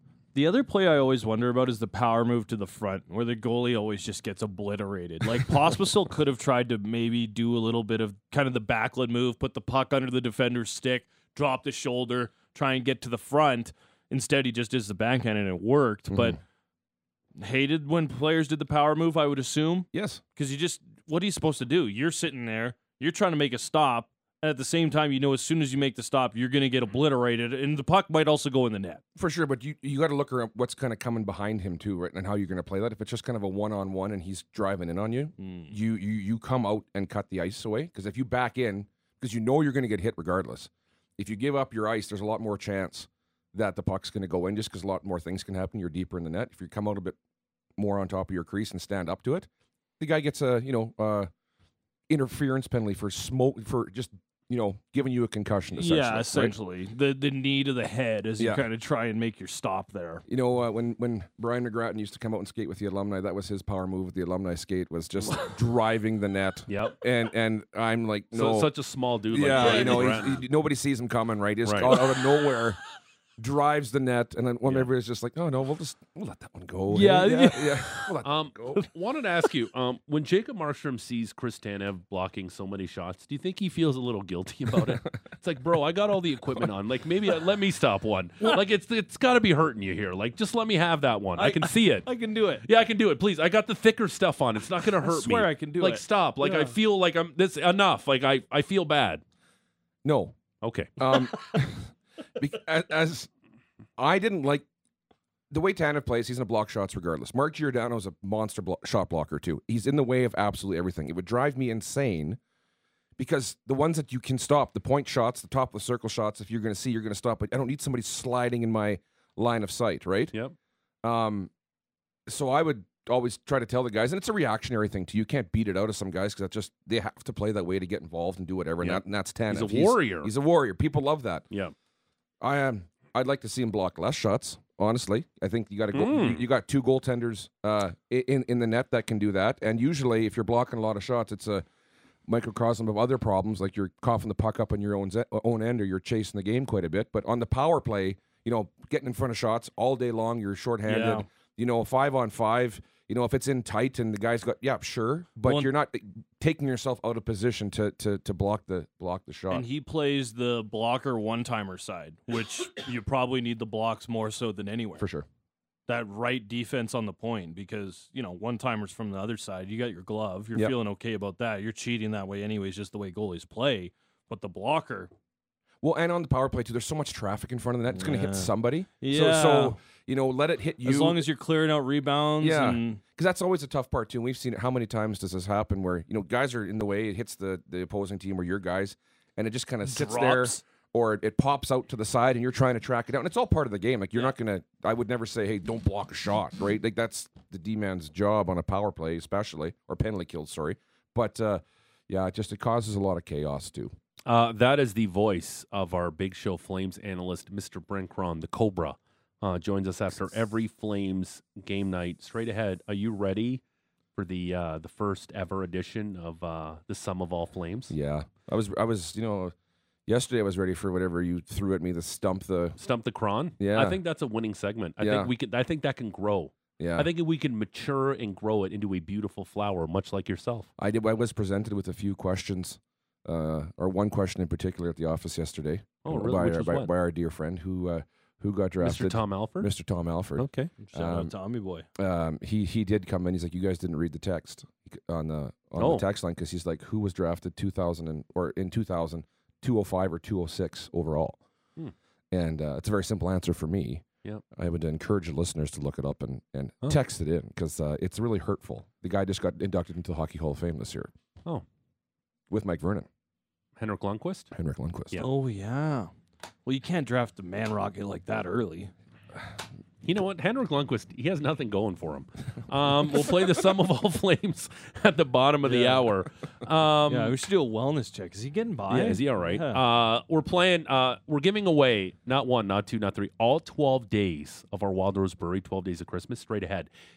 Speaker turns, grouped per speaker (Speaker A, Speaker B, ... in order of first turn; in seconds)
Speaker A: 0.3-16.4, 17.4-29.0, 35.4-35.7, 55.8-60.2, 69.5-70.1, 76.9-78.1, 91.4-92.7, 95.0-96.8, 150.9-151.2, 155.4-155.7, 159.5-165.1, 165.9-175.1, 177.9-179.8, 180.8-183.0, 189.8-190.6, 240.8-241.9, 265.2-266.1, 266.7-268.9, 275.6-276.1, 277.1-279.8
Speaker B: 19.9-20.2, 29.2-47.2, 47.8-49.5, 50.0-51.3, 52.1-56.5, 58.4-58.6, 60.3-68.7, 69.3-72.8, 73.4-78.8, 100.0-100.3, 101.0-103.3, 104.0-104.7, 105.5-112.4, 113.2-120.3, 121.0-121.5, 122.3-131.4, 132.4-141.7, 142.3-159.7, 165.0-165.3, 175.8-181.2, 182.4-203.9, 217.9-219.5, 220.1-222.8, 223.6-224.0, 225.0-225.3, 226.8-227.1, 230.8-241.3, 242.0-251.4, 252.3-261.1, 262.5-263.1, 264.5-265.2
Speaker C: 66.7-67.0, 68.3-70.4, 71.7-72.0, 78.2-92.1, 92.6-99.2, 100.6-100.9, 128.8-130.3, 135.9-136.4, 204.3-213.6, 214.2-217.9, 222.8-230.7, 236.1-236.9, 238.8-239.7, 240.4-240.7, 245.8-246.1, 263.8-264.5, 270.0-277.4, 278.9-286.9